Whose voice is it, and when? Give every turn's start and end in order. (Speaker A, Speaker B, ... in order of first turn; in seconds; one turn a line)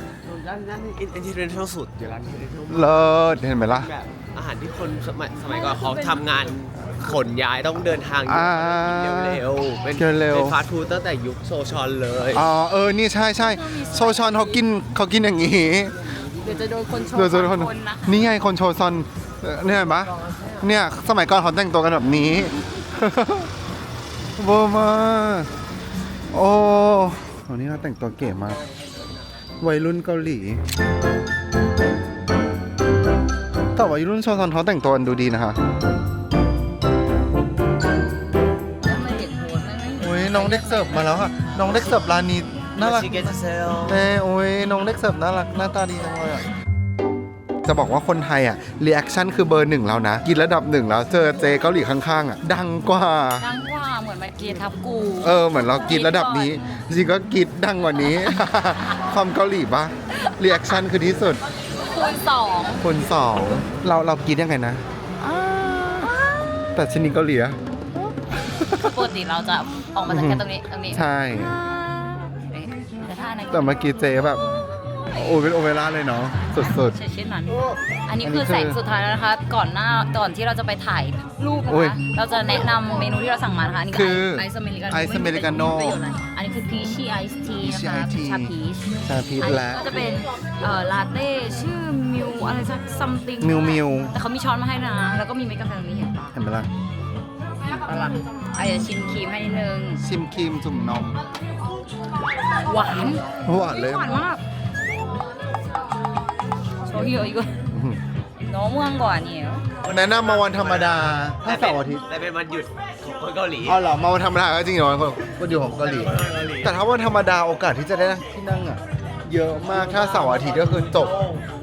Speaker A: 0.2-12.4
Speaker B: 2.7-3.9
Speaker C: 5.4-6.3
Speaker B: 8.3-9.4
Speaker B: 10.0-10.6
Speaker B: 12.3-16.0
Speaker C: 13.4-14.6
Speaker A: 15.9-16.9
Speaker C: 16.4-18.2
Speaker B: 17.0-23.5
Speaker A: 19.7-20.7
Speaker B: 24.4-25.5
Speaker B: 26.3-28.6
Speaker A: 28.2-29.4
Speaker B: 29.6-30.6
Speaker B: 33.8-35.6
Speaker C: 38.8-41.2
Speaker B: 40.0-43.3
Speaker A: 42.8-44.0
Speaker B: 43.9-46.5
Speaker B: 47.6-53.5
Speaker C: 53.4-56.8
Speaker B: 55.2-61.4
Speaker C: 61.8-62.9
Speaker B: 62.8-66.1
Speaker C: 65.3-66.5
Speaker B: 66.8-67.6
Speaker B: 68.4-69.1
Speaker C: 68.7-74.4
Speaker B: 70.1-71.6
Speaker B: 73.5-74.4
Speaker B: 75.1-77.0
Speaker C: 76.4-96.4
Speaker B: 78.2-78.8
Speaker B: 81.7-82.0
Speaker B: 83.9-86.0
Speaker B: 87.6-90.1
Speaker B: 93.4-94.1
Speaker B: 96.3-96.7
Speaker C: 97.6-100.0
Speaker B: 100.0-101.2
Speaker C: 102.6-104.4
Speaker B: 103.0-104.2
Speaker C: 106.9-107.5
Speaker B: 107.7-108.0
Speaker C: 108.4-109.6
Speaker A: 109.8-113.8
Speaker B: 109.9-112.0
Speaker B: 113.7-121.1
Speaker A: 115.7-116.8
Speaker A: 119.4-121.5